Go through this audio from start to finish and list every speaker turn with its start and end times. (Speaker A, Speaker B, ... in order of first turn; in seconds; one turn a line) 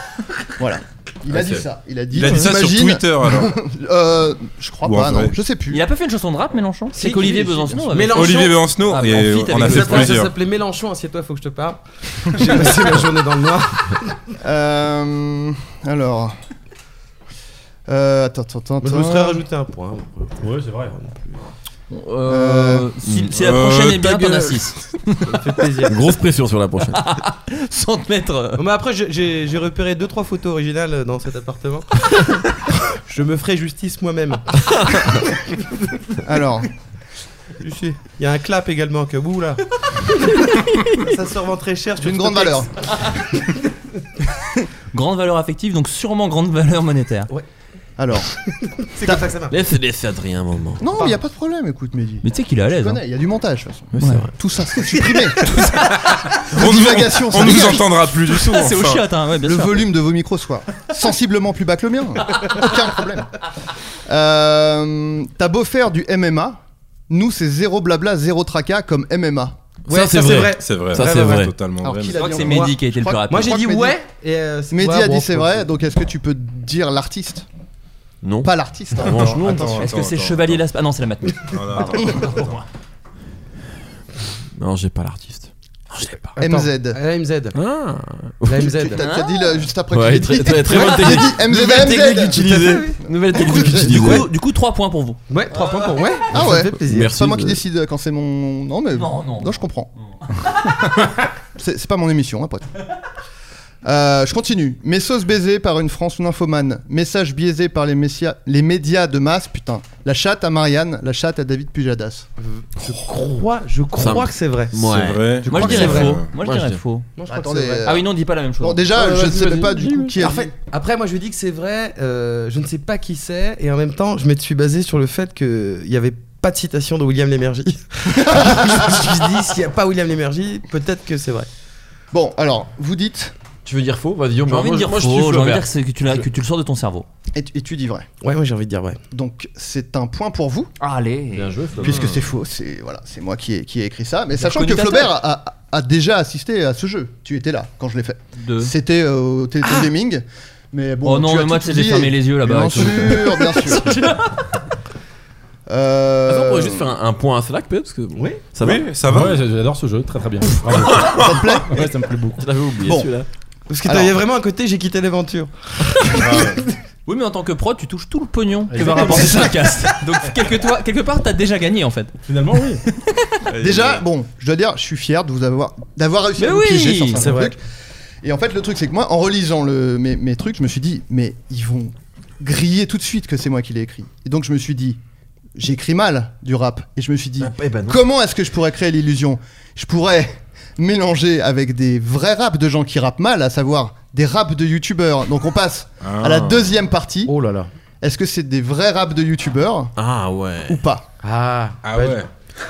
Speaker A: 0.6-5.8
Speaker B: 1.3-1.6
Speaker C: 2.1-3.5
Speaker C: 4.8-5.3
Speaker D: 5.7-10.2
Speaker E: 6.9-8.7
Speaker C: 8.1-10.3
Speaker E: 9.4-14.2
Speaker A: 14.4-16.3
Speaker A: 17.9-19.4
Speaker E: 18.8-21.3
Speaker F: 20.4-21.0
Speaker D: 21.9-25.3
Speaker A: 22.2-22.9
Speaker B: 23.1-23.3
Speaker C: 23.3-24.5
Speaker E: 25.2-25.9
Speaker B: 25.9-27.0
Speaker D: 26.9-28.6
Speaker E: 28.6-32.2
Speaker E: 32.9-35.4
Speaker A: 36.2-36.7
Speaker E: 37.6-43.2
Speaker A: 42.0-42.7
Speaker D: 44.9-47.3
Speaker A: 48.0-48.3
Speaker E: 48.6-49.6
Speaker A: 49.0-49.3
Speaker B: 49.5-50.8
Speaker A: 50.8-55.5
Speaker D: 52.2-53.0
Speaker B: 53.9-54.3
Speaker D: 54.0-54.2
Speaker C: 56.1-59.0
Speaker A: 56.5-57.9
Speaker D: 58.2-59.9
Speaker A: 59.4-63.3
Speaker A: 64.0-69.6
Speaker E: 69.9-71.5
Speaker B: 69.9-71.5
Speaker C: 70.6-72.3
Speaker A: 71.8-74.0
Speaker E: 72.1-72.8
Speaker D: 72.2-73.7
Speaker E: 73.3-75.6
Speaker A: 74.7-77.5
Speaker B: 78.2-79.9
Speaker A: 78.4-79.5
Speaker C: 79.1-80.6
Speaker D: 79.8-82.6
Speaker C: 81.5-82.6
Speaker B: 84.6-86.3
Speaker A: 86.4-87.0
Speaker E: 86.4-87.5
Speaker B: 87.5-88.7
Speaker E: 88.4-89.0
Speaker A: 88.6-94.2
Speaker D: 89.0-89.3
Speaker B: 89.9-94.3
Speaker E: 90.7-93.0
Speaker D: 93.8-96.0
Speaker E: 95.3-97.1
Speaker A: 96.3-99.9
Speaker B: 96.8-97.6
Speaker D: 98.9-99.6
Speaker D: 100.3-100.9
Speaker A: 101.4-102.7
Speaker A: 103.8-112.3
Speaker E: 112.4-114.8
Speaker B: 114.0-116.8
Speaker C: 114.9-116.2
Speaker E: 115.4-116.2
Speaker D: 115.5-117.1
Speaker E: 117.2-117.9
Speaker A: 117.2-118.0
Speaker D: 117.8-118.8
Speaker A: 118.6-120.5
Speaker B: 119.0-120.2
Speaker E: 120.2-131.5
Speaker A: 128.1-129.0
Speaker A: 132.1-133.3
Speaker B: 133.6-136.2
Speaker D: 134.5-137.1
Speaker A: 137.3-138.1
Speaker E: 138.2-139.0
Speaker A: 139.1-140.7
Speaker D: 140.8-141.5
Speaker B: 141.3-142.1
Speaker A: 141.8-153.9
Speaker D: 144.4-145.1
Speaker D: 148.4-148.7
Speaker D: 151.0-154.2
Speaker A: 155.7-156.9
Speaker B: 156.3-158.9
Speaker E: 158.2-158.4
Speaker C: 158.6-159.4
Speaker F: 159.1-162.4
Speaker B: 160.8-161.2
Speaker C: 160.8-161.4
Speaker A: 161.0-161.9
Speaker B: 162.4-163.3
Speaker A: 162.8-163.1
Speaker E: 163.7-166.7
Speaker A: 163.8-164.2
Speaker C: 166.2-166.6
Speaker D: 167.1-173.3
Speaker F: 168.7-169.7
Speaker F: 172.3-172.8
Speaker C: 173.5-174.0
Speaker A: 173.6-177.6
Speaker D: 176.4-177.2
Speaker E: 177.2-177.5
Speaker A: 178.2-185.0
Speaker A: 185.6-197.3
Speaker B: 187.4-188.0
Speaker C: 196.0-196.7
Speaker E: 197.3-197.7
Speaker A: 198.0-199.9
Speaker B: 199.9-200.8
Speaker A: 200.7-201.1
Speaker E: 201.2-202.2
Speaker C: 201.8-202.3